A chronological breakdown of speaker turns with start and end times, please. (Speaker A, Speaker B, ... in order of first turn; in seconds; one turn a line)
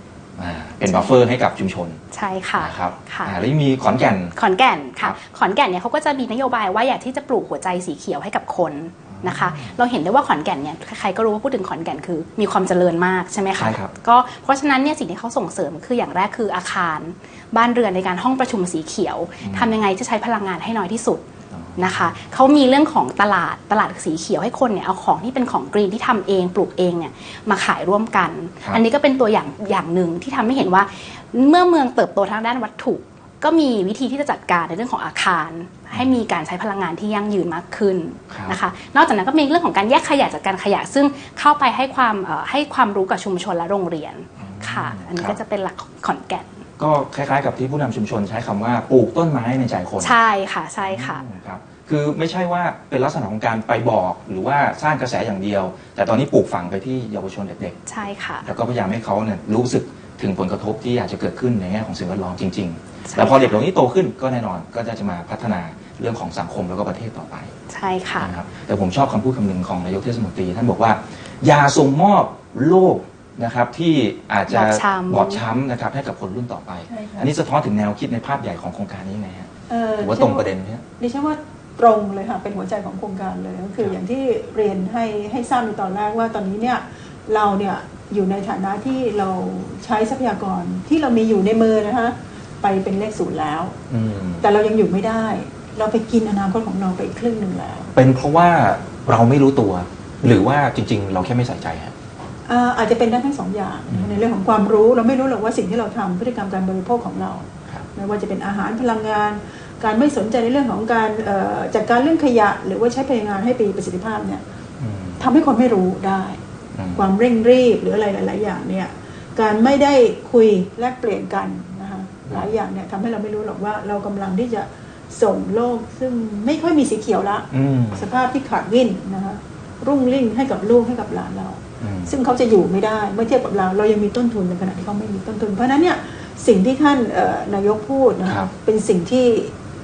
Speaker A: 0.4-2.0
Speaker B: 0.8-1.2
Speaker B: 2.1-3.4
Speaker A: 2.5-4.3
Speaker B: 4.3-21.2
Speaker A: 9.1-9.8
Speaker A: 13.5-13.9
Speaker A: 19.4-19.7
Speaker A: 21.5-22.1
Speaker B: 21.8-46.6
Speaker A: 38.3-38.6
Speaker A: 44.4-45.4
Speaker A: 46.8-50.1
Speaker B: 50.0-51.2
Speaker A: 50.8-57.8
Speaker B: 57.9-58.5
Speaker A: 58.4-67.5
Speaker B: 63.0-63.6
Speaker B: 67.7-68.3
Speaker A: 68.2-80.8
Speaker B: 74.5-75.4
Speaker C: 76.9-77.3
Speaker C: 79.7-93.8
Speaker A: 93.9-94.5
Speaker C: 94.4-97.9
Speaker A: 97.9-101.9
Speaker C: 102.5-114.4
Speaker A: 103.9-104.2
Speaker A: 114.8-115.2
Speaker C: 115.2-116.4
Speaker A: 116.8-117.0
Speaker C: 116.9-139.5
Speaker A: 127.5-128.1
Speaker A: 131.8-132.1
Speaker A: 138.2-138.5